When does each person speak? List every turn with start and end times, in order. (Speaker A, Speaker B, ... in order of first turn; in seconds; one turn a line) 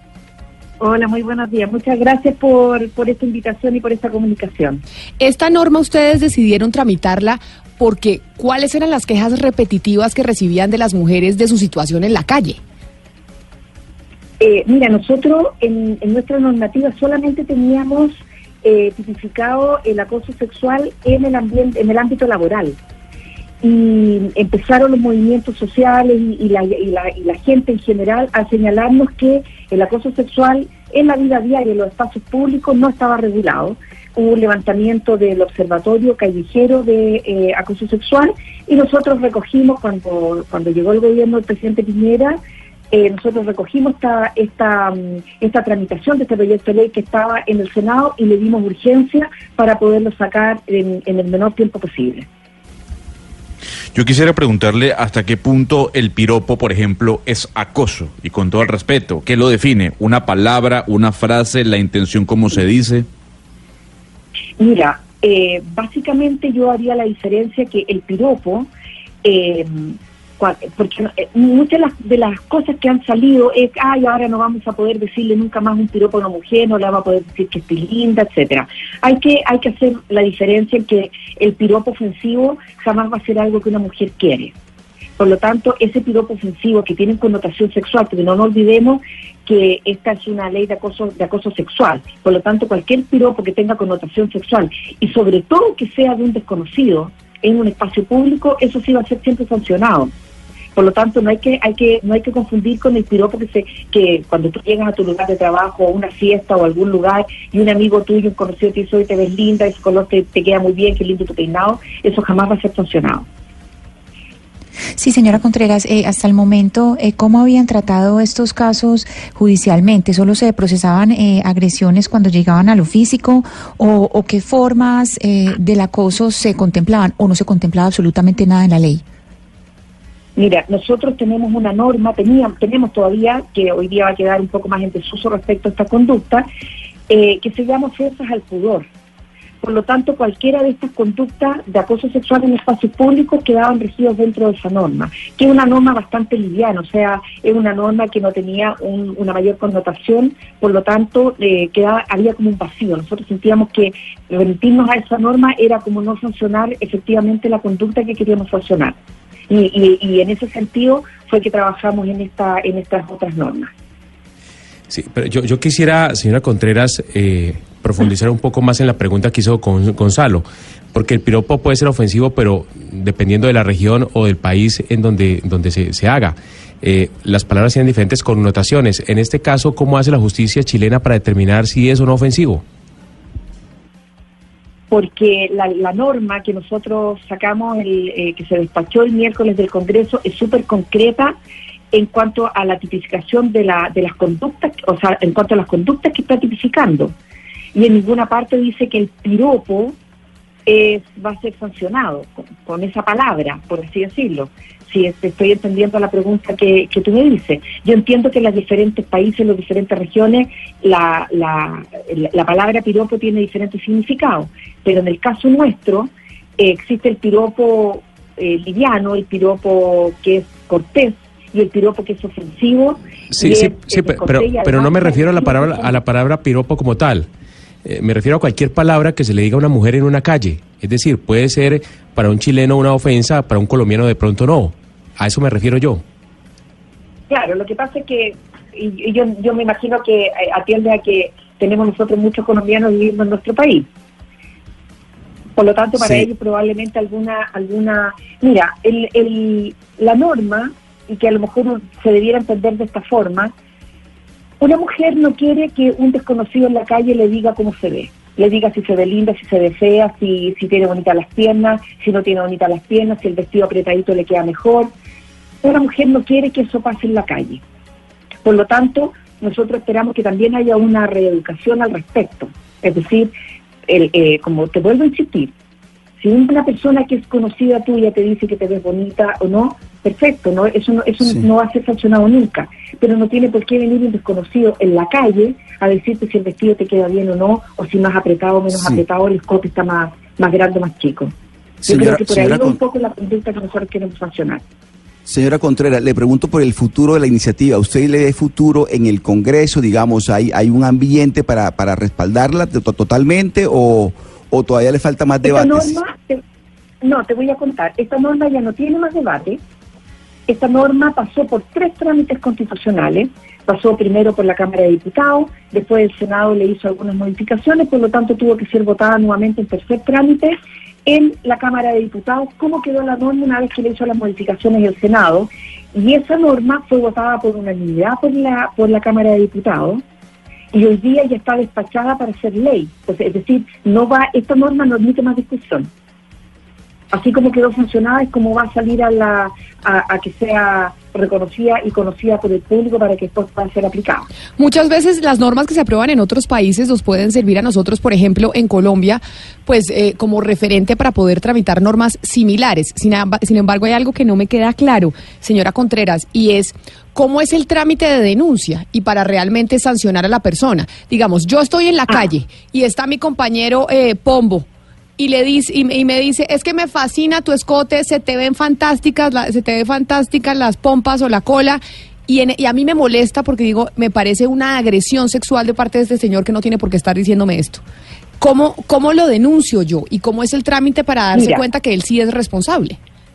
Speaker A: 0.8-4.8
Speaker B: 5.2-12.6
Speaker A: 14.4-22.8
Speaker A: 23.6-42.4
Speaker A: 42.9-52.3
Speaker C: 53.9-63.1
Speaker A: 64.6-68.7
Speaker A: 69.2-84.5
Speaker A: 85.2-100.1
Speaker A: 100.7-113.3
Speaker D: 115.0-129.0
Speaker A: 130.3-136.4
Speaker A: 137.1-138.9
Speaker A: 139.6-158.9
Speaker A: 159.5-163.7
Speaker E: 164.9-182.6
Speaker A: 184.9-191.4
Speaker A: 191.9-197.2
Speaker A: 197.7-200.0
Speaker A: 200.7-226.0
Speaker E: 223.4-227.3
Speaker E: 227.8-236.0
Speaker A: 237.3-243.9
Speaker A: 245.6-253.5
Speaker E: 246.0-246.2
Speaker A: 254.6-264.9
Speaker A: 265.6-267.6
Speaker A: 268.4-273.3
Speaker A: 273.9-275.5
Speaker A: 276.2-291.3
Speaker F: 288.7-289.0
Speaker F: 291.8-292.8
Speaker A: 291.9-294.6
Speaker F: 295.2-305.9
Speaker A: 305.4-306.4
Speaker A: 307.0-309.6
Speaker A: 310.5-330.0
Speaker A: 330.7-335.9
Speaker A: 337.1-344.3
Speaker B: 344.6-377.8
Speaker B: 378.4-383.0
Speaker A: 381.3-381.6